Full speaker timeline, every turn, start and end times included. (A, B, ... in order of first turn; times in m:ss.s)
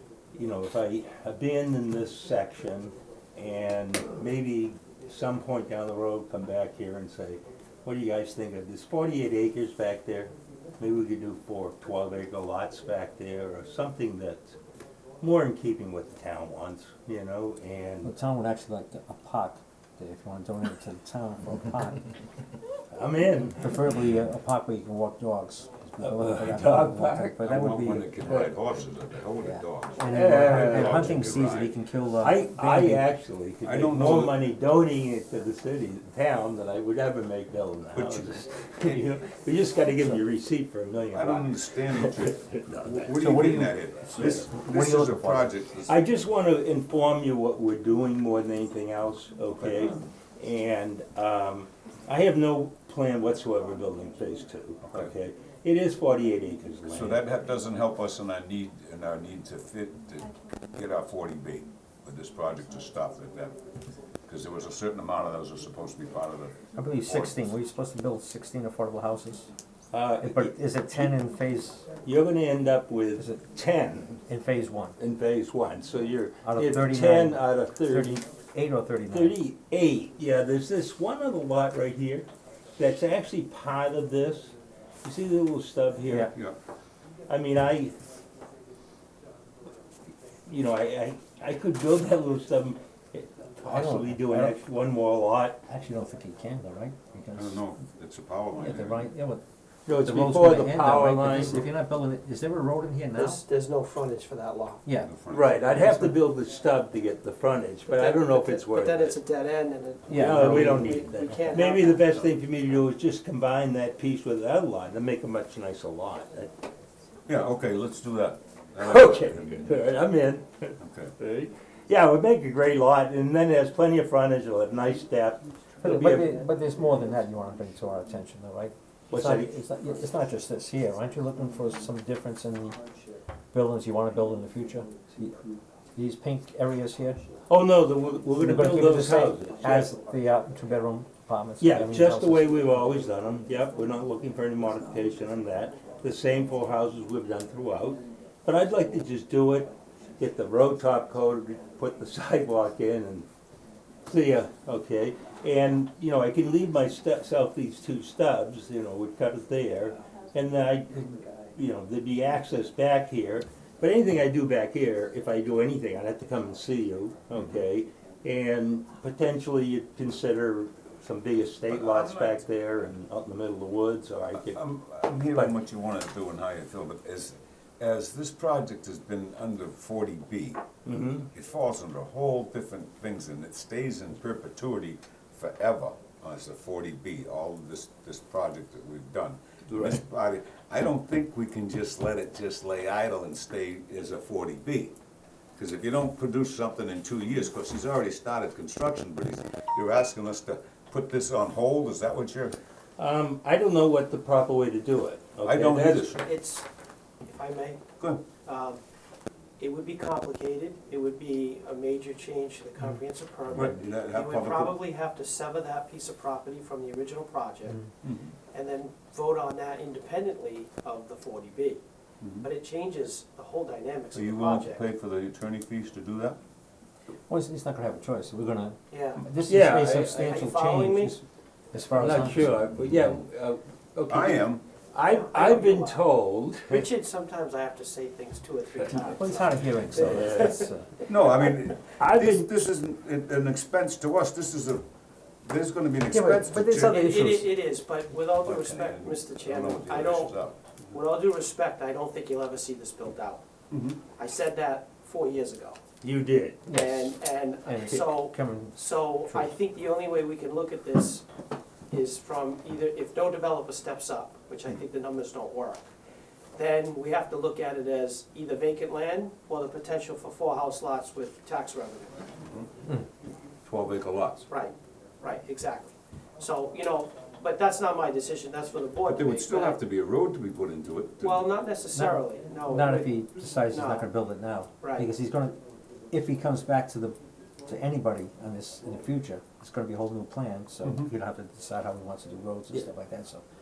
0:00.3-0:14.6 A
0:15.2-0:18.1 A
0:18.0-0:22.1 B
0:22.9-0:23.8 A
0:23.6-0:28.4 B
0:26.0-0:27.5 A
0:27.4-0:31.7 C
0:28.2-0:28.6 A
0:29.4-0:33.1 B
0:30.1-0:31.4 A
0:32.2-0:43.2 A
0:33.6-0:34.4 C
0:37.9-0:39.1 C
0:41.1-0:46.0 C
0:43.1-0:45.5 B
0:45.8-0:57.3 A
0:49.6-0:50.0 C
0:54.8-0:55.1 C
0:56.9-1:03.5 C
1:04.3-1:07.3 C
1:06.8-1:09.5 B
1:09.9-1:11.2 A
1:10.2-1:11.9 B
1:12.0-1:14.2 A
1:14.3-1:15.0 B
1:15.0-1:18.2 A
1:16.4-1:19.4 B
1:19.1-1:26.3 A
1:26.1-1:26.4 B
1:26.2-1:26.6 C
1:27.3-1:28.0 A
1:30.4-1:35.6 A
1:33.6-1:34.6 B
1:35.7-1:37.6 B
1:37.3-1:39.1 C
1:38.6-1:39.4 B
1:39.8-1:41.7 A
1:40.0-1:43.4 B
1:43.1-1:44.8 D
1:44.8-1:45.1 B
1:45.0-1:45.6 C
1:45.3-1:49.2 A
1:45.8-1:46.1 B
1:47.9-1:52.2 D
1:50.1-1:51.1 B
1:50.1-1:56.6 A
1:57.2-1:59.7 C
1:58.8-2:06.4 A
2:00.8-2:01.1 C
2:05.8-2:12.8 B
2:09.1-2:09.5 A
2:13.5-2:15.4 B
2:16.0-2:17.2 B
2:17.5-2:19.9 A
2:18.4-2:22.6 B
2:21.6-2:33.3 A
2:34.0-2:54.6 A
2:51.7-2:52.4 C
2:54.3-3:00.6 C
2:55.2-2:55.6 A
3:00.8-3:01.3 A
3:01.3-3:15.0 C
3:09.7-3:10.0 A
3:15.6-3:22.6 C
3:23.0-3:26.2 A
3:25.4-3:26.3 C
3:26.2-3:26.6 D
3:27.2-3:27.8 D
3:28.4-3:28.8 D
3:29.6-3:37.8 D
3:33.5-3:34.8 C
3:38.0-3:38.3 C
3:38.5-3:41.8 D
3:42.2-3:42.5 C
3:42.4-3:44.8 D
3:44.1-3:46.4 C
3:47.3-3:52.6 B
3:48.9-3:49.2 D
3:49.4-3:50.3 A
3:50.1-3:51.2 D
3:51.9-3:56.9 A
3:54.1-3:54.6 C
3:55.0-3:56.0 D
3:56.7-4:01.3 D
3:58.9-4:01.0 B
4:00.0-4:00.6 A
4:01.1-4:04.8 C
4:02.0-4:02.5 A
4:05.4-4:07.2 C
4:06.1-4:07.5 B
4:06.7-4:10.4 D
4:08.4-4:10.6 C
4:10.9-4:13.4 D
4:13.7-4:14.0 C
4:14.1-4:15.8 D
4:16.0-4:16.6 A
4:16.7-4:19.5 B
4:16.7-4:21.2 D
4:21.9-4:25.8 D
4:26.6-4:32.2 D
4:32.4-4:32.7 C
4:33.6-4:34.5 C
4:34.5-4:39.8 D
4:39.0-4:41.5 C
4:41.2-4:43.2 D
4:41.9-4:45.6 B
4:43.7-4:44.1 D
4:44.8-4:45.1 D
4:46.1-4:53.4 B
4:50.8-4:51.1 C